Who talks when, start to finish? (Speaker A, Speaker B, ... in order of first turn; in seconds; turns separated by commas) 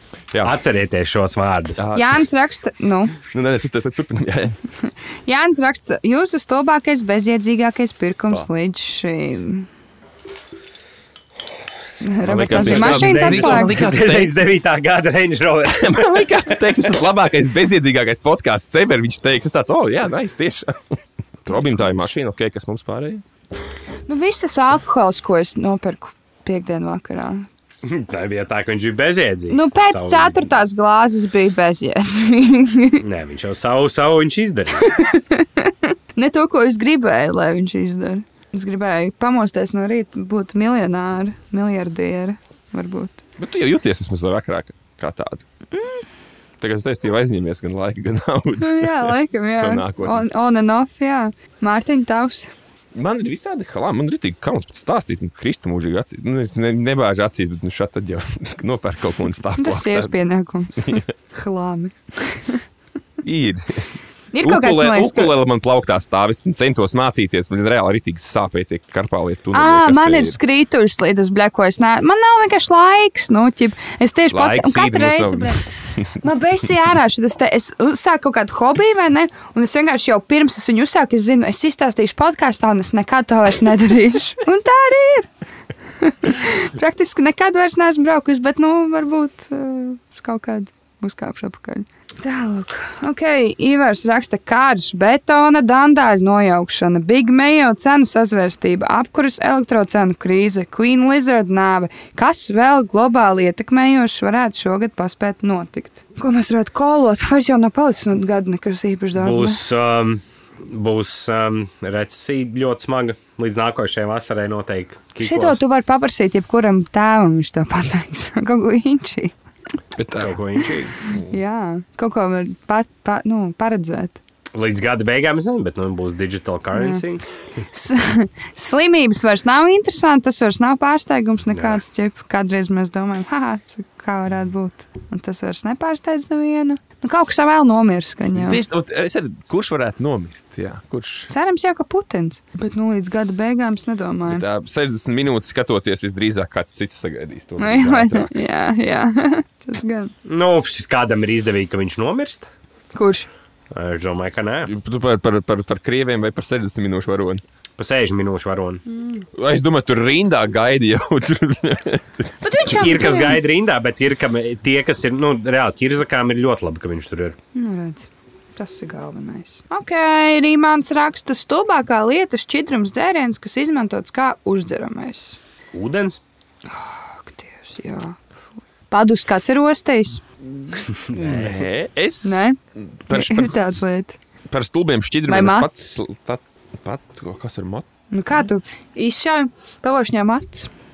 Speaker A: 0.4-1.8, Speaker B: 1.8-2.1, Speaker C: 1.9-3.2, Speaker B: 3.3-4.6, Speaker C: 4.9-9.7, Speaker C: 12.0-13.8, Speaker A: 12.2-16.8, Speaker B: 12.2-14.4, Speaker B: 15.8-23.2, Speaker C: 21.5-22.0, Speaker C: 24.1-27.5, Speaker A: 27.8-30.5, Speaker C: 29.5-33.0, Speaker A: 33.0-34.9, Speaker C: 34.8-43.2, Speaker B: 43.4-45.4, Speaker C: 45.7-46.1, Speaker B: 46.6-50.3, Speaker C: 48.6-52.5, Speaker B: 52.9-60.1, Speaker C: 59.6-62.6, Speaker B: 60.8-61.0, Speaker B: 63.2-70.4, Speaker C: 64.3-65.3, Speaker C: 69.5-85.3, Speaker B: 74.3-76.1, Speaker C: 86.0-109.6, Speaker A: 109.2-115.6, Speaker C: 115.2-119.3, Speaker B: 120.0-121.4, Speaker A: 120.1-120.7, Speaker C: 121.3-124.2, Speaker A: 124.5-127.3, Speaker C: 126.7-127.0, Speaker C: 127.7-138.6, Speaker A: 131.5-131.8, Speaker B: 138.3-141.3, Speaker C: 141.3-144.4, Speaker B: 144.3-148.3, Speaker C: 147.6-150.1, Speaker A: 150.2-152.4, Speaker C: 152.9-153.3, Speaker A: 153.7-154.7, Speaker B: 154.6-157.4, Speaker A: 157.8-158.8, Speaker C: 158.9-159.2, Speaker B: 159.3-162.8, Speaker C: 162.4-163.4, Speaker A: 162.7-167.3, Speaker C: 167.5-175.4, Speaker A: 175.7-176.2, Speaker C: 176.7-178.2, Speaker C: 178.9-180.2, Speaker A: 180.9-181.6, Speaker B: 181.1-183.8, Speaker C: 182.2-182.6, Speaker C: 183.1-184.2, Speaker B: 184.5-187.8, Speaker C: 185.3-185.7, Speaker C: 188.1-190.7